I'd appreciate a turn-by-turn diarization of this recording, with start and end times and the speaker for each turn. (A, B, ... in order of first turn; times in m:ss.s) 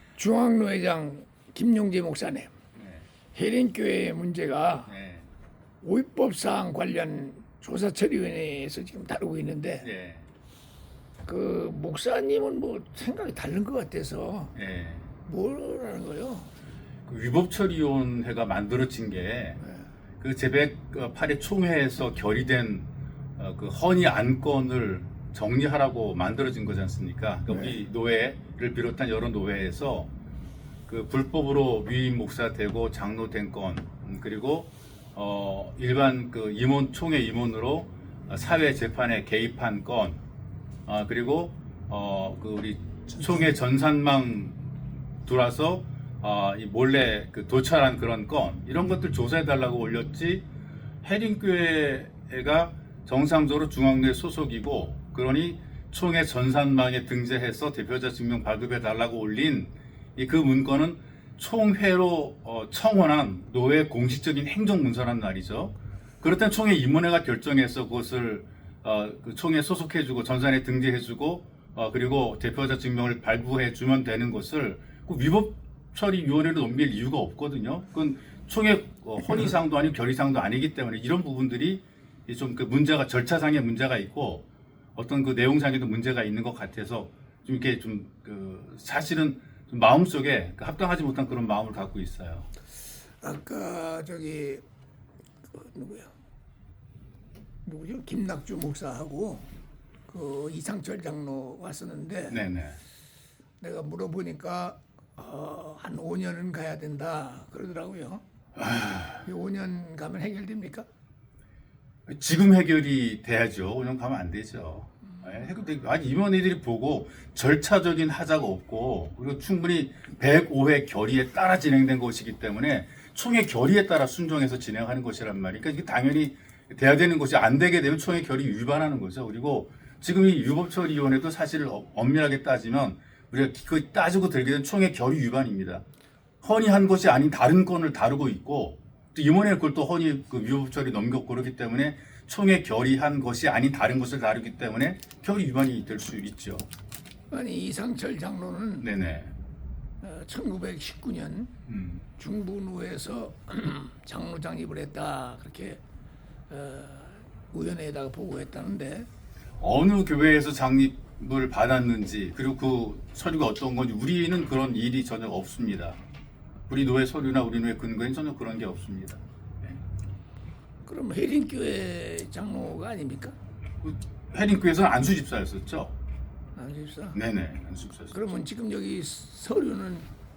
0:00.2-0:02.5 A
0:02.8-0:03.1 B
0:03.3-0:04.9 A
0:04.9-0:05.3 B
0:05.8-0:09.9 A
0:09.8-0:10.3 B
0:11.2-0:14.6 A
0:14.6-0:15.1 B
0:15.3-0:16.5 A
0:17.1-0:19.6 B
0:20.2-0:30.1 B
0:27.5-0:27.7 A
0:30.9-0:40.2 B
0:40.9-0:44.6 B
0:45.3-0:50.4 B
0:51.0-1:24.4 B
1:25.0-1:32.5 B
1:33.2-1:34.6 A
1:35.5-1:36.1 A
1:37.6-1:39.5 A
1:40.1-1:42.4 A
1:42.3-1:42.8 B
1:43.6-1:48.2 A
1:48.6-1:49.2 B
1:49.2-1:50.9 A
1:52.1-2:15.8 B
2:16.4-2:26.7 B
2:27.3-2:28.9 A
2:28.8-2:29.3 B
2:30.0-2:31.5 A
2:31.7-2:32.1 B
2:32.2-2:35.8 A
2:36.5-2:39.1 A
2:39.6-2:46.0 B
2:46.7-2:49.8 B
2:50.9-2:53.4 A
2:53.8-2:55.9 B
2:56.6-2:57.2 A
2:57.1-2:58.3 B
2:58.1-3:00.1 A